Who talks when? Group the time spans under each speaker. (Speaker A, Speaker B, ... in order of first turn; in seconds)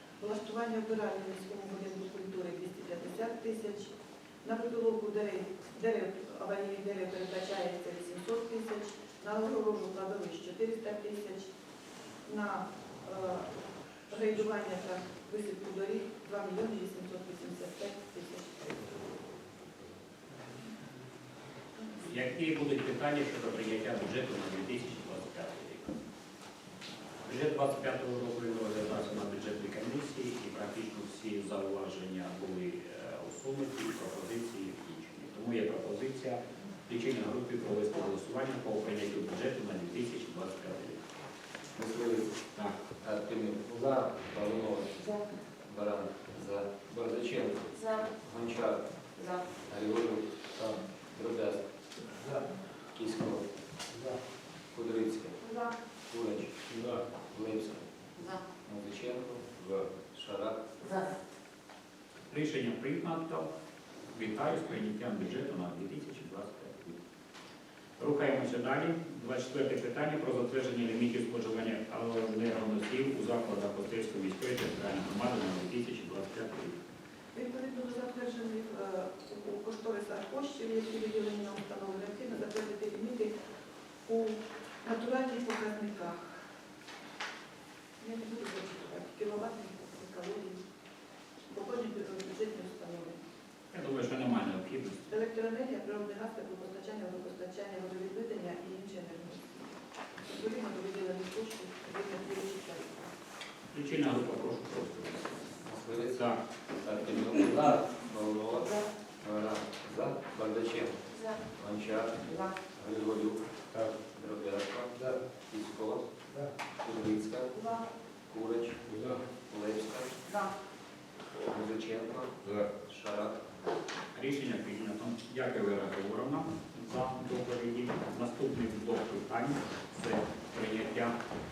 Speaker A: 0.2-3.9, 4.4-11.5, 12.2-13.5, 14.1-19.2, 77.3-83.3, 84.1-86.2, 88.0-90.6, 91.5-93.2, 95.1-103.1
Speaker B: 22.0-25.9, 27.2-41.0, 62.3-63.5, 64.1-67.0, 68.0-76.8, 93.7-95.0, 103.7-105.5, 124.1-131.1
Speaker C: 41.7-42.4, 43.0-48.8, 49.6-50.2, 51.1-51.6, 52.9-53.5, 54.7-55.5, 56.1-56.6, 57.2-57.8, 58.6-60.7, 105.6-106.3, 106.8-113.4, 114.1-115.0, 115.5-116.1, 116.8-117.7, 118.3-120.4, 121.5-123.4